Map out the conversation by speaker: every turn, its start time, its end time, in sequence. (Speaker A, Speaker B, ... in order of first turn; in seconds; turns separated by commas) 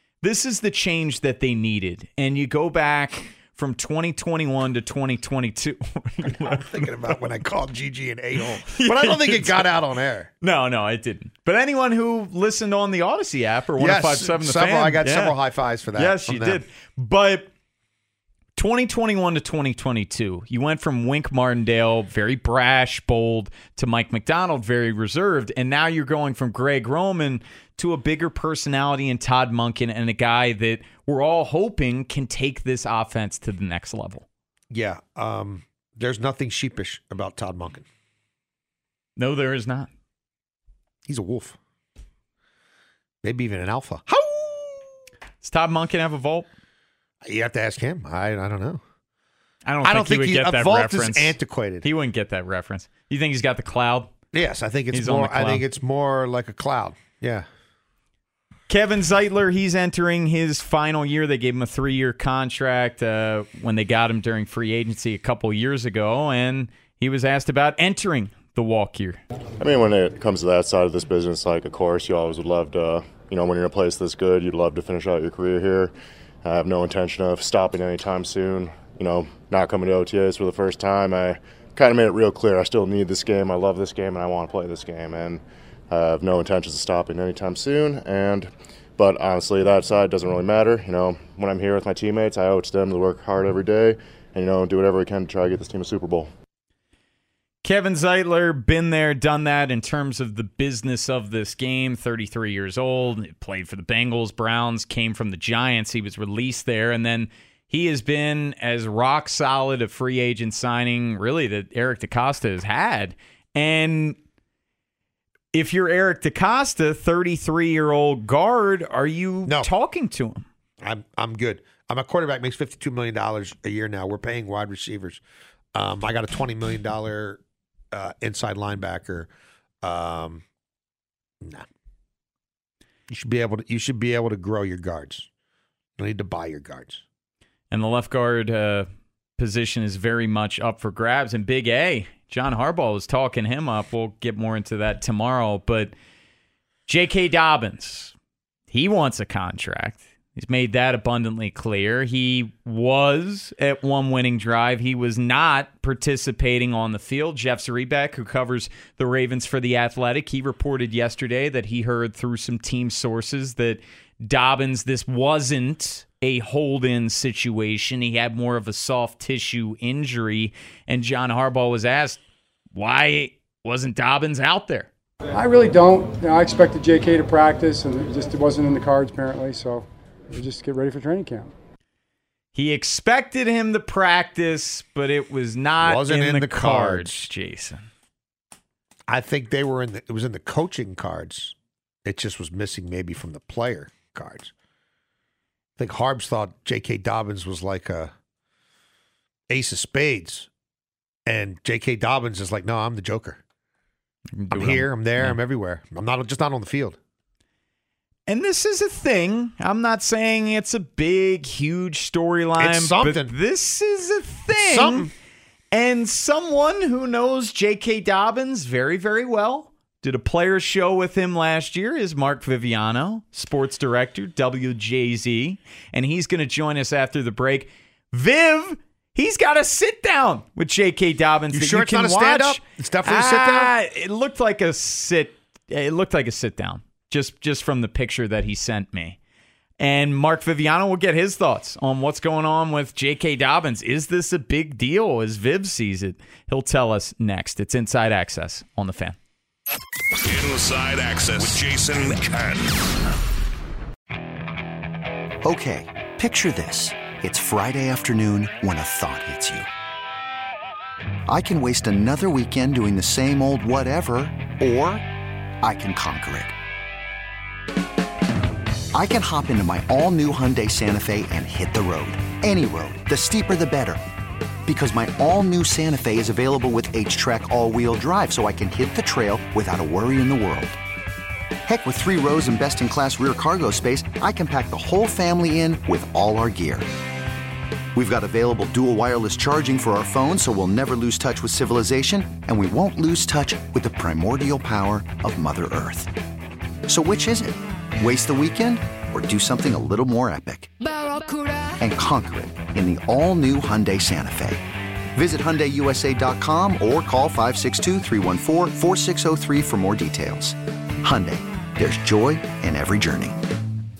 Speaker A: 0.2-7.2, Speaker B: 6.3-10.3, Speaker A: 8.7-9.7, Speaker A: 10.4-15.3, Speaker B: 13.8-16.6, Speaker A: 16.0-17.5, Speaker A: 18.6-34.2, Speaker B: 34.7-37.9, Speaker A: 39.2-39.9, Speaker B: 41.1-41.6, Speaker B: 43.2-44.8, Speaker A: 45.4-46.5, Speaker B: 47.2-48.8, Speaker A: 49.7-54.1, Speaker B: 49.8-51.9, Speaker B: 54.3-57.5, Speaker A: 54.9-55.6, Speaker A: 58.7-69.2, Speaker C: 69.6-96.3, Speaker A: 97.6-114.2, Speaker A: 115.5-120.5, Speaker B: 120.8-125.2, Speaker B: 125.8-127.4, Speaker B: 127.9-129.3, Speaker B: 129.8-130.4, Speaker B: 133.1-135.3, Speaker B: 136.0-137.0, Speaker A: 137.7-145.9, Speaker A: 146.9-148.1, Speaker A: 148.7-172.2, Speaker A: 172.7-174.9, Speaker D: 175.3-181.5, Speaker A: 182.5-187.9, Speaker B: 185.8-187.3, Speaker B: 189.1-194.5, Speaker B: 195.8-198.1, Speaker B: 199.5-200.5, Speaker B: 201.3-203.4, Speaker A: 204.4-205.4, Speaker B: 204.5-207.0, Speaker A: 208.3-215.1, Speaker B: 212.6-213.3, Speaker B: 214.6-215.1, Speaker A: 215.7-239.2, Speaker B: 231.5-233.7, Speaker A: 239.8-249.2, Speaker E: 250.2-253.1, Speaker F: 255.4-259.7, Speaker F: 261.3-265.1, Speaker F: 265.6-266.5, Speaker F: 268.9-274.0, Speaker F: 274.7-280.8, Speaker F: 281.7-286.9, Speaker F: 287.9-296.1, Speaker F: 296.9-300.7, Speaker F: 301.8-304.6, Speaker F: 305.1-313.4